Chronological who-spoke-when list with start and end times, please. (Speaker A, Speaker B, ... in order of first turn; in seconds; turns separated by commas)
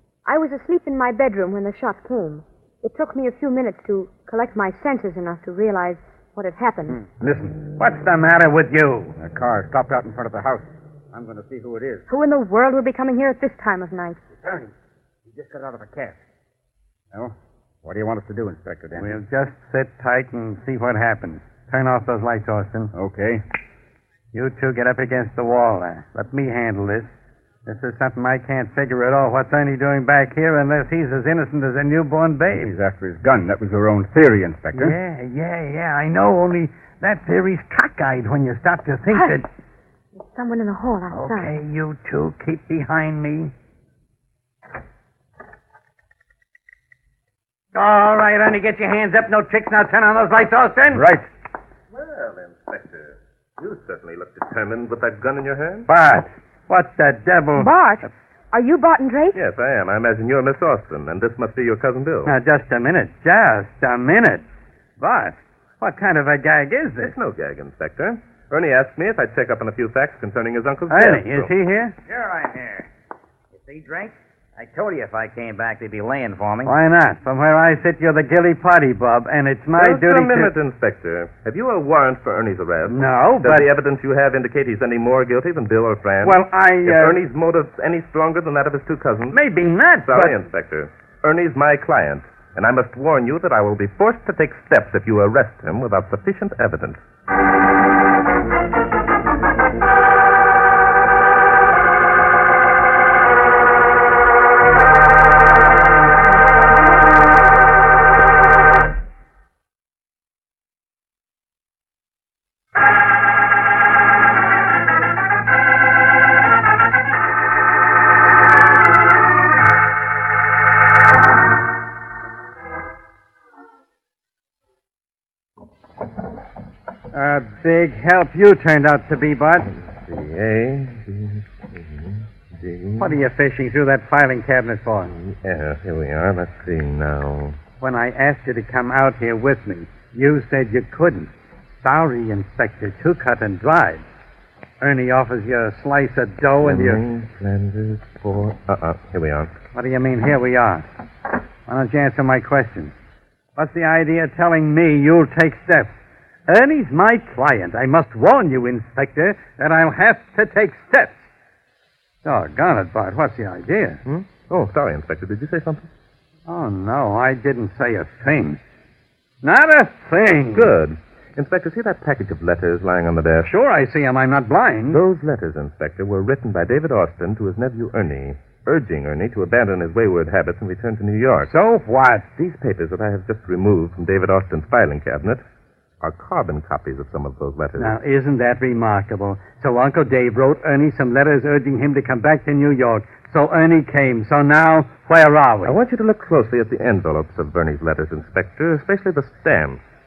Speaker A: 0.2-7.0, Speaker B: 7.2-7.5, Speaker C: 7.6-9.1, Speaker B: 9.2-12.1, Speaker A: 12.1-14.2, Speaker B: 14.4-14.7, Speaker B: 15.3-16.2, Speaker B: 17.1-19.1, Speaker C: 18.9-22.9, Speaker B: 22.9-23.4, Speaker C: 24.3-27.1, Speaker C: 27.6-32.7, Speaker B: 32.5-35.0, Speaker C: 34.7-39.5, Speaker A: 40.2-41.5, Speaker C: 41.1-43.5, Speaker C: 47.7-51.1, Speaker B: 50.9-51.2, Speaker D: 51.9-55.9, Speaker C: 55.9-57.7, Speaker A: 57.6-59.4, Speaker D: 59.3-62.3, Speaker C: 62.2-64.4, Speaker C: 65.0-67.1, Speaker D: 67.0-71.5, Speaker C: 70.9-71.9, Speaker E: 72.1-72.9, Speaker E: 73.5-76.7, Speaker C: 76.7-80.5, Speaker D: 79.8-89.4, Speaker C: 82.9-83.7, Speaker C: 86.2-87.2, Speaker C: 89.3-90.3, Speaker D: 90.0-97.0, Speaker C: 127.1-129.7, Speaker D: 129.7-133.2, Speaker C: 133.0-135.1, Speaker D: 135.1-137.6, Speaker C: 137.8-144.0, Speaker C: 144.8-147.0, Speaker D: 146.6-149.5, Speaker C: 149.7-150.8, Speaker C: 151.7-152.9, Speaker C: 153.6-155.9, Speaker C: 156.5-161.2, Speaker C: 162.2-164.0, Speaker D: 164.1-165.9, Speaker C: 166.5-168.6, Speaker C: 169.4-170.7, Speaker D: 170.5-173.5, Speaker C: 173.4-175.0, Speaker D: 174.9-181.5, Speaker C: 181.5-182.3, Speaker D: 182.4-185.4, Speaker D: 186.0-187.9, Speaker C: 187.8-195.8, Speaker D: 195.6-199.8